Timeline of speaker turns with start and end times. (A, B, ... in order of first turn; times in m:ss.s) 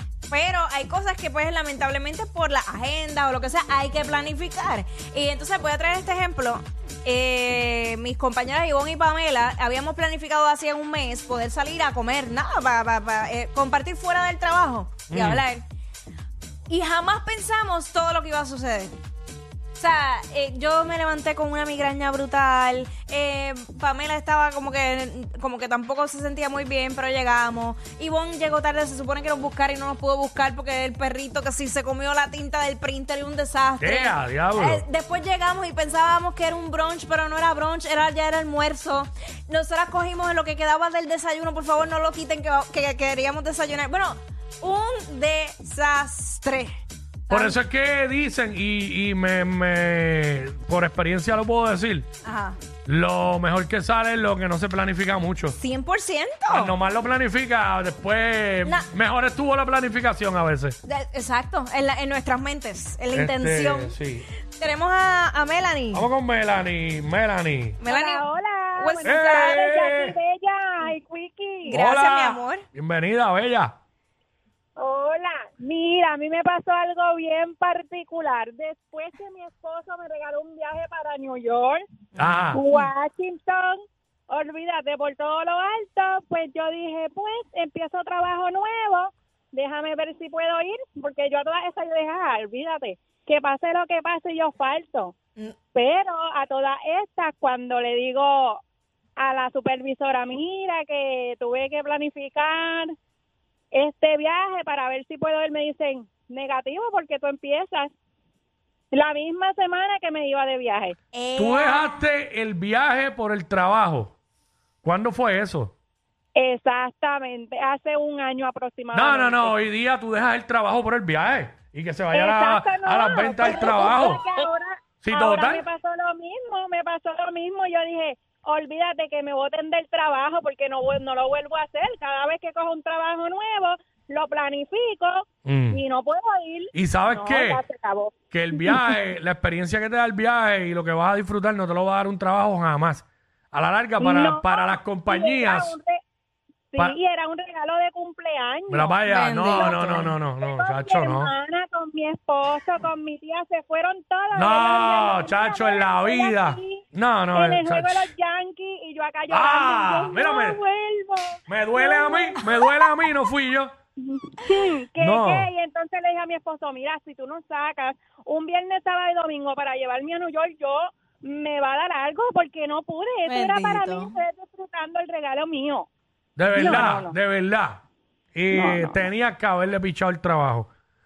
0:00.3-0:15.6 A
0:15.1-0:15.4 B
0:16.7-0:18.9 A
0:19.8-0:46.7 A
0:33.8-0:34.8 B
0:47.3-0:47.6 A
0:47.3-0:52.1 B
0:52.2-0:52.6 A
0:52.8-0:55.6 B
0:55.6-0:56.7 A
0:56.5-1:00.8 B
1:00.9-1:03.9 A
1:03.1-1:04.3 B
1:04.5-1:06.1 A
1:05.9-1:07.8 B
1:07.8-1:09.6 A
1:07.9-1:11.8 C
1:09.0-1:10.1 B
1:11.7-1:13.7 B
1:11.7-1:12.6 A
1:14.8-1:21.8 C
1:22.2-1:22.9 A
1:22.2-1:22.6 B
1:22.5-1:35.1 C
1:35.7-1:38.6 C
1:39.2-1:42.9 C
1:43.7-1:47.9 C
1:48.9-1:51.0 C
1:51.1-1:52.0 A
1:51.4-1:54.1 B
1:54.8-1:55.7 B
1:56.4-1:59.6 C
1:58.9-2:04.2 B
2:02.1-2:18.1 C
2:05.0-2:05.6 B
2:15.4-2:15.8 B
2:16.7-2:17.6 B
2:18.3-2:25.7 B
2:24.0-2:26.0 C
2:26.7-2:29.8 C
2:28.7-2:31.3 B
2:29.0-2:30.1 A
2:30.4-2:36.8 C
2:34.3-2:38.1 B
2:37.3-2:42.4 C
2:39.3-2:40.6 B
2:41.5-2:43.7 B
2:44.0-2:55.9 C
2:45.0-2:45.5 B
2:53.2-2:54.2 A
2:56.4-2:57.8 B
2:56.5-2:57.1 C
2:58.3-3:00.7 B
2:58.5-2:59.0 C